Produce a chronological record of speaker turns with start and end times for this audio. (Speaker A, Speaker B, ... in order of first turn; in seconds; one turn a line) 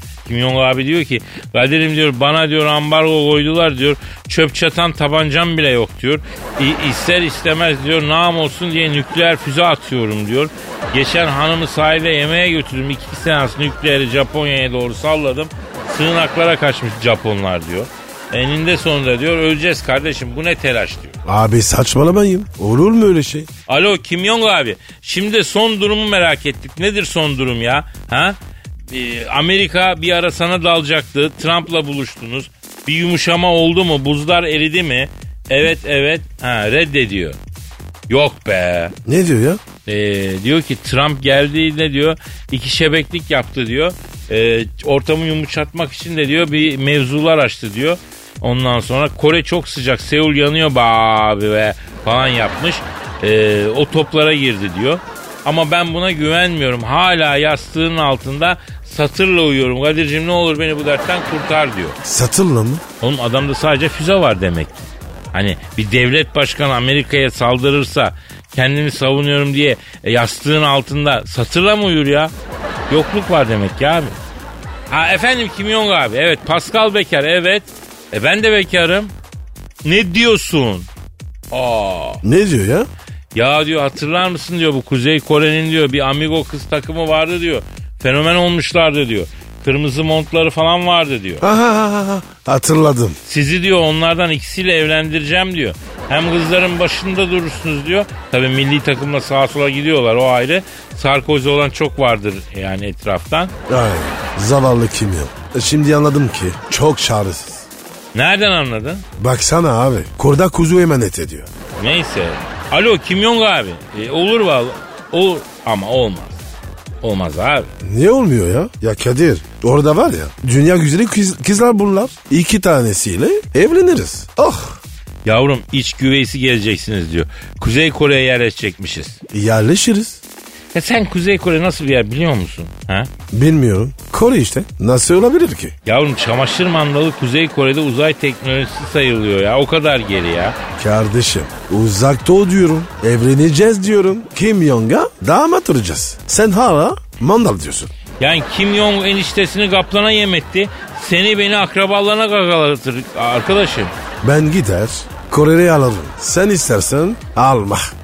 Speaker A: 0.2-21.2
Speaker B: 21.2-23.5
Speaker A: 23.7-28.4
Speaker A: 28.9-37.4
Speaker A: 38.1-39.0
Speaker B: 39.0-39.6
Speaker A: 39.9-62.0
Speaker B: 62.0-62.8
Speaker A: 63.0-72.3
Speaker A: 72.9-74.2
Speaker A: 74.9-79.1
Speaker A: 79.8-80.9
Speaker A: 81.5-82.2
Speaker B: 82.2-82.9
Speaker A: 83.3-91.4
Speaker B: 91.4-93.2
Speaker A: 93.2-103.5
Speaker B: 103.7-107.7
Speaker A: 108.1-109.0
Speaker B: 109.2-111.5
Speaker A: 111.8-116.4
Speaker A: 117.0-117.7
Speaker B: 117.8-124.8
Speaker A: 125.2-129.2
Speaker B: 129.3-130.2
Speaker A: 130.7-133.1
Speaker B: 133.3-135.7
Speaker A: 135.8-140.6
Speaker B: 140.8-147.9
Speaker A: 148.2-153.9
Speaker B: 154.2-157.9